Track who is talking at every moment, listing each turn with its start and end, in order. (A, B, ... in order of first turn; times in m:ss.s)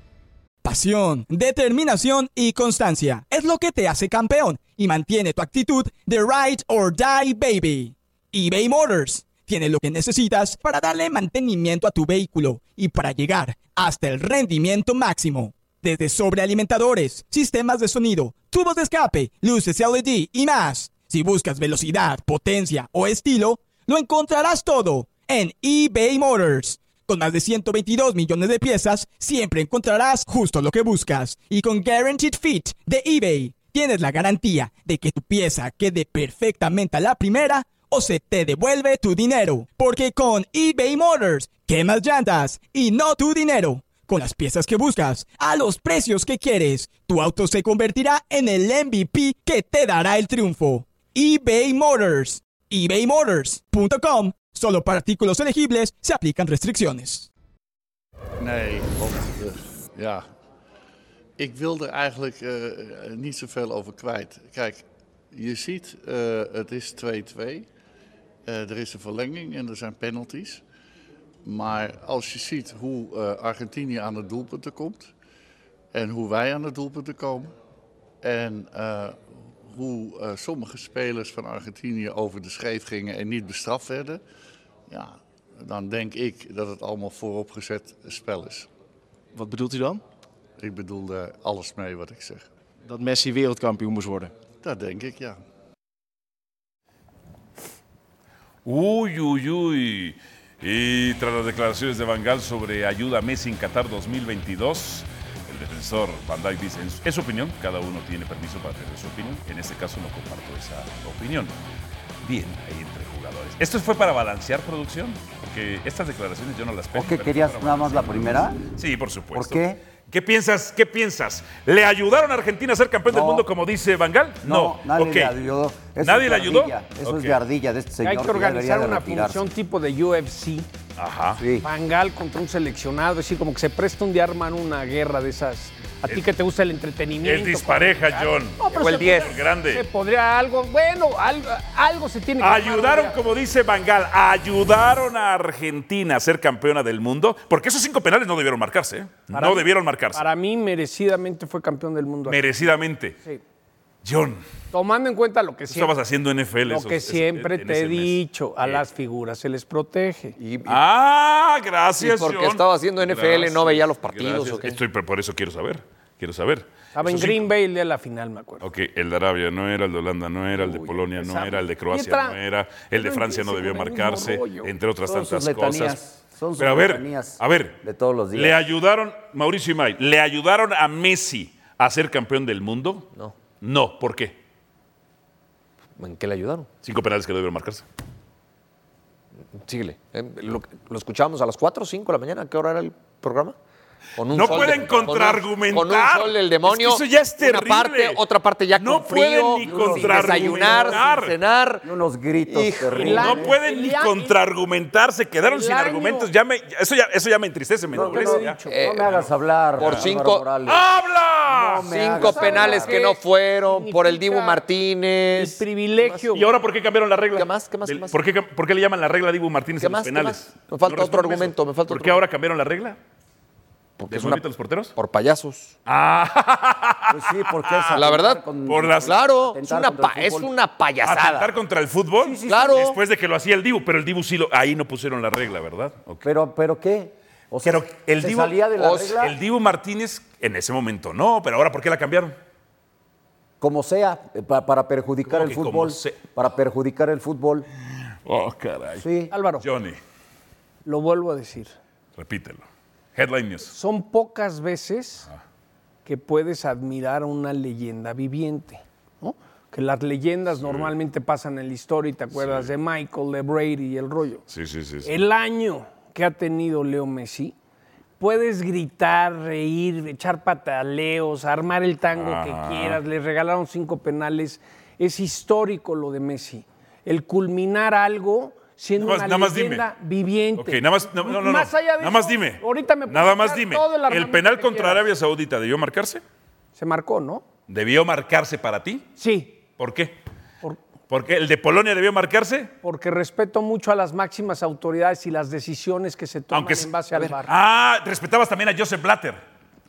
0:00.6-0:57.3 A
0:58.4-1:00.2 B
1:01.4-1:07.6 B
1:08.4-1:10.6 B
1:11.4-1:15.1 B
1:15.9-1:17.5 B
1:18.2-1:24.2 B
1:24.9-1:28.7 B
1:29.3-1:30.0 C
1:30.6-1:32.4 B
1:32.8-1:34.3 C
1:34.6-1:35.4 B
1:38.6-1:51.5 D
1:52.2-2:05.4 D
1:56.9-1:58.6 E
1:59.3-1:59.8 E
2:03.1-2:03.5 E
2:04.4-2:09.5 E
2:06.0-2:07.4 D
2:08.0-2:10.7 F
2:11.0-2:11.4 D
2:11.4-2:11.6 E
2:11.6-2:23.2 F
2:17.2-2:19.8 D
2:18.8-2:19.3 G
2:22.4-2:30.2 D
2:29.3-2:32.5 F
2:32.2-2:33.2 D
2:34.0-2:34.4 D
2:34.7-2:35.9 F
2:35.7-2:38.8 D
2:36.6-2:40.4 F
2:40.4-2:40.8 G
2:40.6-2:47.5 D
2:42.0-2:44.8 G
2:46.9-2:48.7 F
2:48.6-2:56.0 D
2:50.6-2:52.4 F
2:52.9-2:54.7 F
2:55.0-2:58.7 E
2:56.6-2:57.8 D
2:58.3-3:03.1 D
3:03.6-3:04.4 D
3:06.0-3:06.7 G
3:06.8-3:07.8 D
3:09.5-3:13.6 G
3:14.2-3:21.9 G
3:14.2-3:18.2 D
3:14.5-3:15.0 E
3:18.7-3:21.4 D
3:19.6-3:21.1 E
3:21.8-3:23.6 E
3:22.4-3:23.2 G
3:22.9-3:30.1 D
3:22.9-3:24.4 F
3:25.4-3:26.3 F
3:27.9-3:30.9 E
3:28.0-3:28.8 F
3:28.7-3:29.2 G
3:29.8-3:30.5 G
3:30.6-3:31.9 D
3:31.5-3:33.0 E
3:31.8-3:36.2 G
3:32.2-3:34.6 F
3:35.3-3:36.5 F
3:36.3-3:43.0 D
3:37.3-3:38.2 G
3:39.8-3:42.2 G
3:44.0-3:45.7 G
3:44.1-3:44.9 D
3:45.8-3:48.0 D
3:47.1-3:50.5 E
3:47.9-3:48.5 G
3:48.6-3:49.2 D
3:49.0-3:51.5 G
3:51.0-3:56.3 D
3:52.2-3:52.9 E
3:52.4-3:53.0 G
3:56.2-3:59.3 E
3:57.6-4:02.4 D
3:58.8-3:59.1 G
4:03.6-4:07.7 E
4:05.3-4:06.3 D
4:08.2-4:09.0 D
4:09.0-4:09.3 E
4:09.3-4:09.7 F
4:09.6-4:10.0 D
4:10.8-4:11.7 F
4:12.2-4:13.7 D
4:13.7-4:15.3 F
4:16.0-4:24.4 F
4:20.5-4:20.9 D
4:22.3-4:22.7 D
4:24.5-4:25.1 D
4:25.0-4:27.5 F
4:28.2-4:45.1 F
4:32.1-4:33.0 D
4:39.0-4:39.8 D
4:40.6-4:46.2 D
4:46.8-4:47.4 F
4:47.7-4:49.1 D
4:49.2-4:49.6 F
4:49.8-4:50.2 D
4:51.1-4:52.7 D
4:52.8-4:57.5 F
4:56.5-4:59.4 D